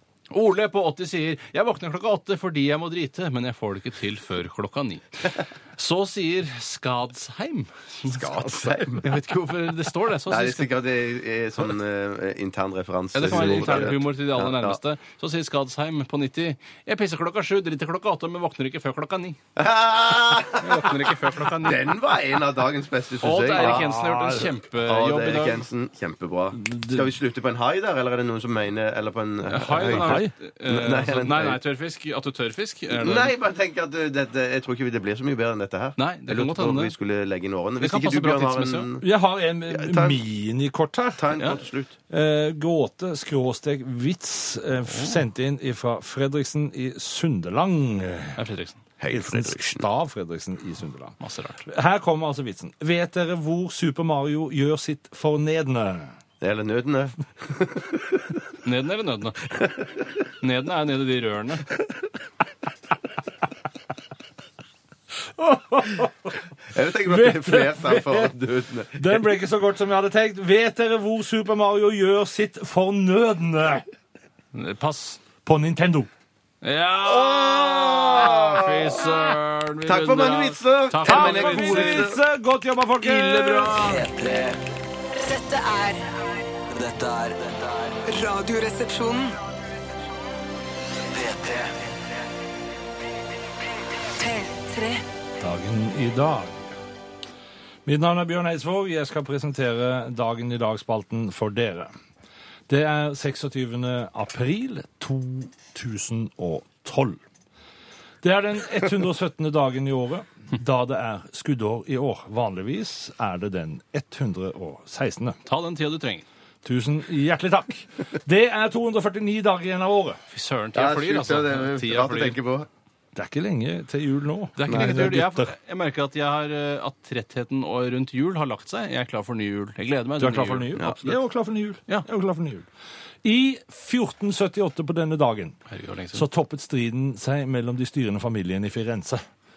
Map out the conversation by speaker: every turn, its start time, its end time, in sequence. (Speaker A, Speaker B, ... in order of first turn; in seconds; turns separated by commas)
Speaker A: 0.3-10.7, Speaker B: 8.1-9.2, Speaker B: 10.3-14.8, Speaker A: 13.1-19.4, Speaker B: 19.6-23.9, Speaker A: 20.6-21.9, Speaker A: 23.2-25.6, Speaker C: 23.6-24.5, Speaker B: 24.8-31.6, Speaker C: 26.5-27.1, Speaker A: 29.5-33.3, Speaker C: 29.8-30.3, Speaker B: 32.9-39.1, Speaker A: 36.0-36.9, Speaker A: 37.8-38.9, Speaker C: 39.0-41.3, Speaker B: 39.7-40.2, Speaker B: 41.2-42.0, Speaker A: 41.4-41.6, Speaker C: 42.1-48.4, Speaker A: 44.9-45.2, Speaker A: 48.4-48.8, Speaker B: 49.0-49.9, Speaker C: 49.1-56.1, Speaker A: 51.2-51.7, Speaker B: 56.4-58.3, Speaker A: 58.6-59.5, Speaker A: 60.4-61.7, Speaker C: 65.4-66.3, Speaker B: 66.7-69.2, Speaker C: 67.0-68.3, Speaker C: 69.0-73.8, Speaker A: 74.5-75.2, Speaker C: 75.4-76.1, Speaker A: 76.6-82.1, Speaker B: 77.2-79.0, Speaker B: 79.9-82.2, Speaker C: 81.0-83.8, Speaker A: 83.0-84.0, Speaker D: 83.8-84.6, Speaker E: 85.2-86.1, Speaker D: 86.7-88.0, Speaker E: 88.1-89.4, Speaker D: 91.1-91.8, Speaker E: 94.2-95.0, Speaker C: 95.4-96.8, Speaker C: 97.8-101.9, Speaker C: 102.7-107.2, Speaker C: 108.2-115.4, Speaker A: 115.5-116.3, Speaker C: 116.6-120.2, Speaker A: 120.3-122.4, Speaker B: 120.7-122.7, Speaker C: 123.2-125.5, Speaker A: 124.6-130.9, Speaker B: 124.7-125.2, Speaker C: 130.2-132.7, Speaker B: 130.8-131.0, Speaker C: 133.2-135.6, Speaker A: 135.7-136.3, Speaker C: 136.1-139.2